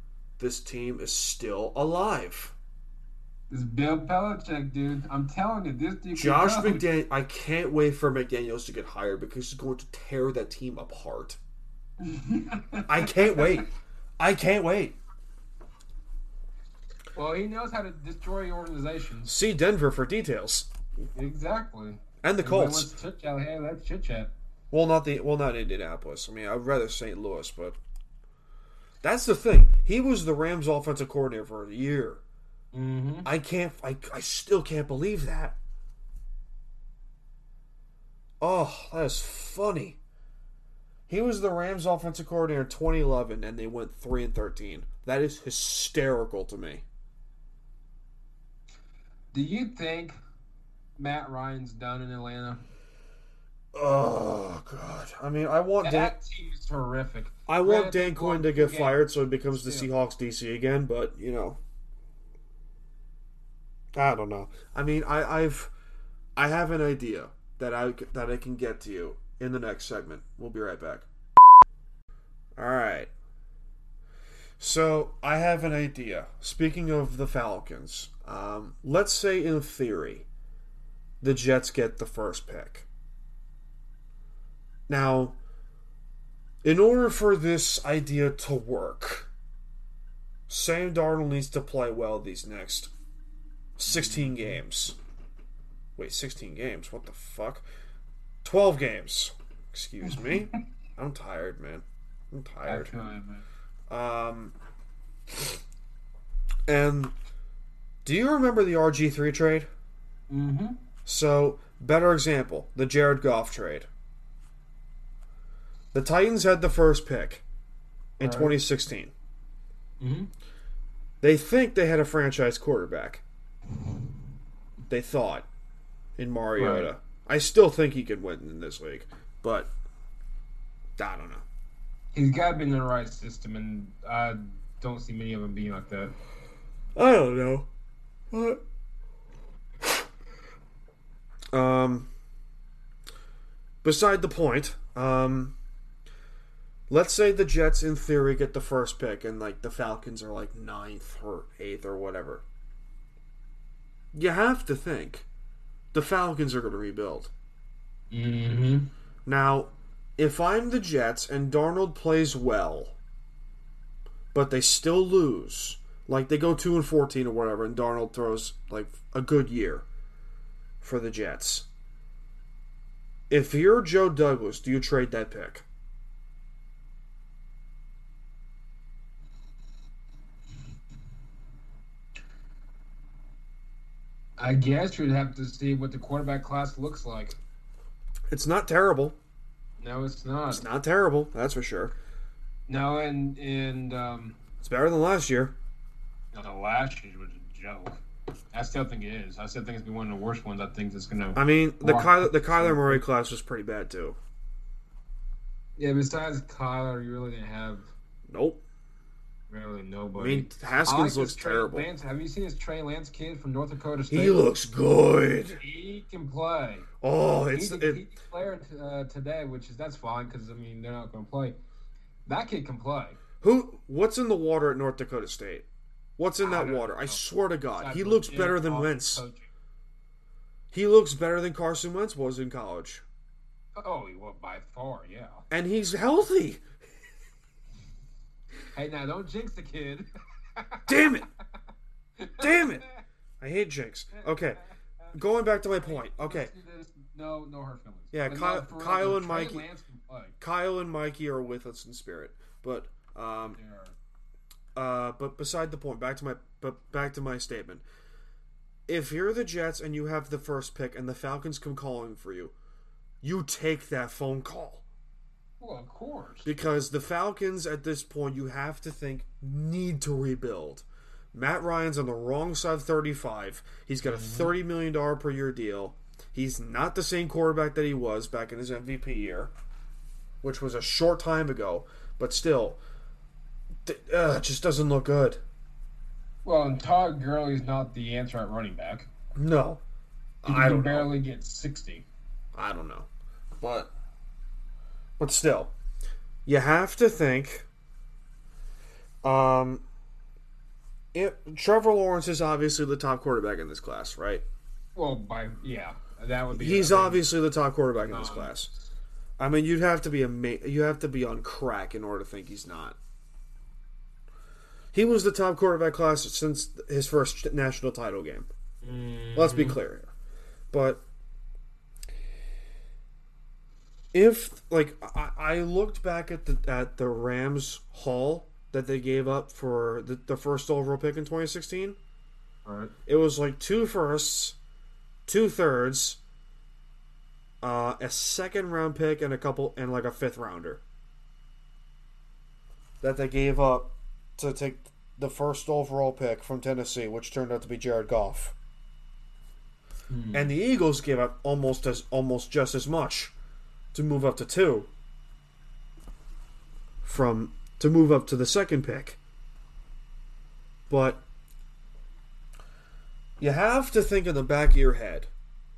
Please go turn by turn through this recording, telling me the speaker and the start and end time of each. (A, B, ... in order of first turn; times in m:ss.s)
0:00.4-0:02.5 A
0:03.5-0:06.8 B
0:06.1-0:11.4 A
0:12.0-0:13.7 B
0:12.9-0:13.7 A
0:14.2-0:15.0 A
0:17.1-0:19.3 B
0:19.2-0:20.7 A
0:21.1-0:24.3 B
0:22.2-0:22.9 A
0:24.7-0:27.8 A
0:29.0-0:32.2 A
0:32.7-0:33.3 B
0:33.2-0:35.6 A
0:38.4-0:40.0 A
0:41.1-0:46.8 A
0:49.3-0:50.2 B
0:51.0-0:52.6 B
0:53.7-0:56.2 A
0:55.8-0:59.9 B
0:57.5-1:01.6 A
1:03.9-1:05.7 A
1:06.4-1:11.1 A
1:12.6-1:13.1 A
1:14.6-1:20.3 A
1:21.2-1:22.9 A
1:24.9-1:25.4 A
1:26.6-1:29.3 A
1:30.5-1:32.9 A
1:33.8-1:35.0 A
1:33.9-1:34.6 B
1:36.0-1:37.6 A
1:38.4-1:42.9 A
1:40.1-1:40.4 B
1:42.6-1:43.4 B
1:43.9-1:44.5 A
1:46.7-1:47.1 A
1:48.0-1:49.7 A
1:50.3-1:50.8 B
1:51.0-1:53.9 A
1:55.9-1:57.4 A
1:58.2-1:59.1 A
1:58.2-1:58.6 B
2:00.0-2:00.3 B
2:01.2-2:03.2 A
2:04.9-2:05.4 A
2:06.2-2:09.7 A
2:06.6-2:06.9 B
2:11.0-2:11.4 A
2:12.1-2:16.1 B
2:16.9-2:17.7 A
2:18.3-2:18.6 A
2:21.5-2:22.1 A
2:23.8-2:25.5 A
2:26.9-2:32.4 A
2:34.1-2:35.2 A
2:35.9-2:37.3 A
2:38.1-2:38.9 B
2:39.2-2:43.0 A
2:44.3-2:49.8 A
2:50.8-2:51.7 A
2:53.3-2:55.6 A
3:04.4-3:07.4 B
3:08.3-3:09.2 A
3:09.8-3:10.6 B
3:10.5-3:11.9 A
3:12.7-3:14.4 B
3:14.6-3:15.5 A
3:16.3-3:18.0 B
3:18.5-3:23.0 B
3:21.3-3:24.2 A
3:25.8-3:27.9 B
3:28.3-3:28.6 A
3:29.5-3:34.5 B
3:30.2-3:31.9 A
3:34.1-3:35.6 A
3:35.6-3:36.9 B
3:37.0-3:38.0 A
3:37.5-3:41.6 B
3:42.2-3:43.2 B
3:43.4-3:49.2 A
3:46.4-3:47.2 B
3:47.8-3:49.5 B
3:50.7-3:53.0 A
3:53.8-3:55.4 B
3:55.5-3:56.6 A
3:58.7-4:00.9 B
4:00.9-4:01.3 A
4:02.2-4:03.0 B
4:02.4-4:02.8 A
4:03.4-4:04.6 A
4:05.1-4:06.5 A
4:05.8-4:10.3 B
4:08.1-4:09.6 A
4:10.4-4:13.6 A
4:13.4-4:14.0 B
4:14.7-4:17.8 A
4:18.9-4:22.5 A
4:23.2-4:24.8 A
4:25.6-4:26.5 B
4:26.4-4:39.5 A
4:34.0-4:34.5 B
4:40.4-4:42.8 A
4:43.8-4:45.4 A
4:46.4-4:49.1 B
4:49.3-4:49.8 A
4:50.4-4:51.1 A
4:50.4-4:52.0 B
4:52.5-4:53.1 A
4:53.6-4:53.9 A
4:55.2-4:55.7 A
4:56.4-4:57.6 A
4:59.2-4:59.8 A
5:01.1-5:04.4 A
5:04.9-5:07.2 B
5:06.5-5:08.7 A
5:08.0-5:08.7 B
5:09.4-5:13.0 A
5:14.9-5:18.5 A
5:18.8-5:19.8 B
5:19.4-5:20.1 A
5:20.7-5:21.0 A
5:24.1-5:32.0 A
5:32.6-5:32.9 B
5:33.1-5:34.6 A
5:35.2-5:36.2 A
5:37.6-5:40.8 A
5:43.0-5:48.5 A
5:50.1-5:50.5 B
5:50.3-5:53.3 A
5:53.9-5:54.9 A
5:57.0-5:59.2 A
6:00.9-6:01.2 A
6:03.4-6:05.3 A